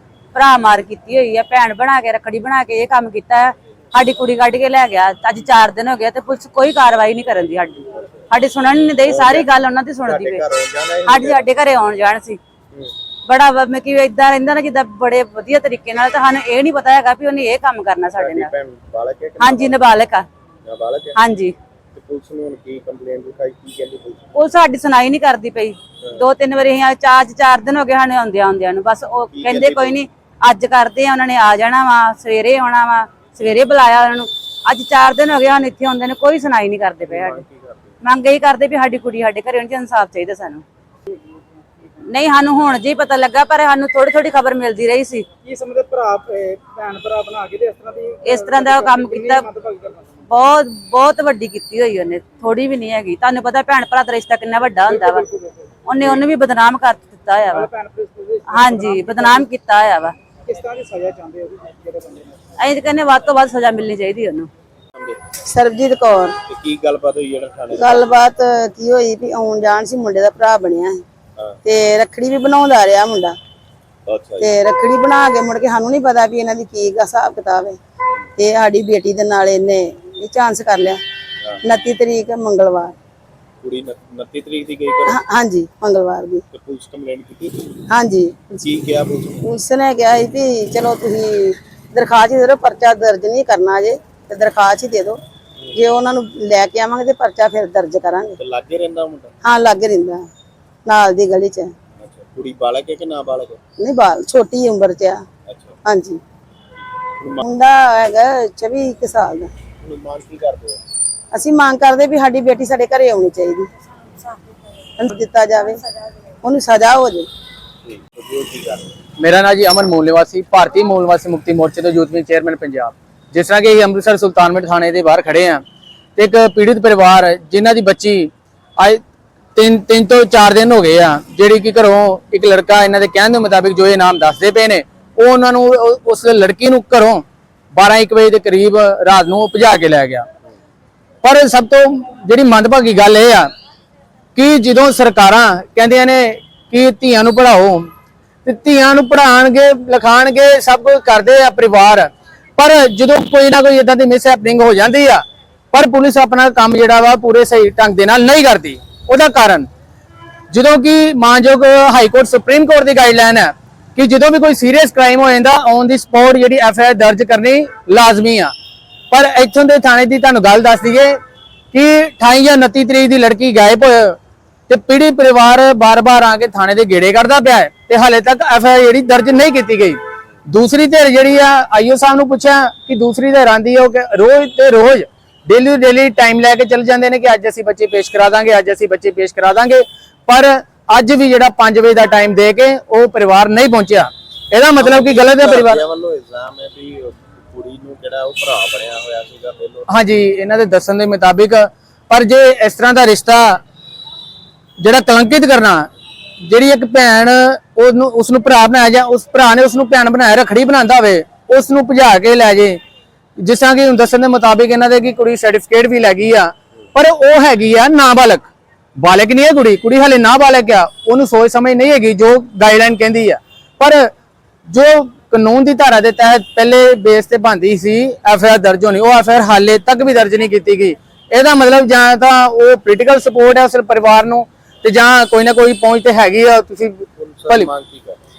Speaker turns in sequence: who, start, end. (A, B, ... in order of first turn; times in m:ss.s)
0:00.3-0:10.4 A
0:07.9-0:08.3 B
0:09.0-0:09.5 B
0:10.0-0:11.5 B
0:11.1-0:12.4 A
0:13.3-0:18.5 A
0:18.1-0:19.8 B
0:19.4-0:20.3 A
0:20.6-0:21.2 B
0:21.2-0:21.6 A
0:21.9-0:24.4 B
0:24.4-0:37.4 A
0:29.3-0:30.0 B
0:37.0-0:38.0 B
0:38.0-0:40.6 A
0:42.1-0:45.3 A
0:45.4-0:50.1 C
0:48.2-0:49.5 A
0:50.3-0:55.3 A
0:54.9-0:55.6 C
0:55.9-0:57.7 A
0:57.6-0:59.4 C
0:58.5-1:00.2 A
1:00.4-1:02.4 C
1:02.6-1:04.5 A
1:04.9-1:05.2 B
1:05.5-1:06.3 D
1:06.5-1:08.1 B
1:07.7-1:11.0 D
1:11.6-1:13.4 D
1:14.1-1:14.5 B
1:14.4-1:17.8 D
1:18.4-1:21.0 D
1:21.6-1:22.9 D
1:23.6-1:25.2 B
1:25.1-1:26.4 D
1:26.5-1:27.8 B
1:27.9-1:28.6 D
1:28.6-1:29.5 B
1:29.4-1:35.2 D
1:35.6-1:35.9 B
1:35.8-1:38.4 D
1:38.4-1:39.3 B
1:39.4-1:40.2 D
1:40.8-1:41.7 D
1:42.0-1:43.6 B
1:43.8-1:45.2 D
1:45.5-1:45.8 B
1:45.8-1:46.2 D
1:47.2-1:47.5 B
1:47.4-1:49.5 D
1:49.8-1:50.8 B
1:51.3-1:53.7 D
1:55.0-1:55.8 D
1:56.4-1:57.3 D
1:57.8-1:59.0 B
1:59.2-2:05.6 E
2:06.2-2:09.0 E
2:09.6-2:20.3 E
2:21.2-2:23.5 E
2:24.4-2:27.9 E
2:28.4-2:39.7 E
2:40.5-2:48.5 E
2:49.1-2:51.2 E
2:51.7-2:54.2 E
2:54.7-3:15.8 E
3:14.8-3:19.9 B
3:19.9-3:23.6 E
3:24.8-3:25.9 E
3:26.4-3:32.8 E
3:33.4-3:44.1 E
3:44.7-3:57.7 E
3:57.2-3:58.2 B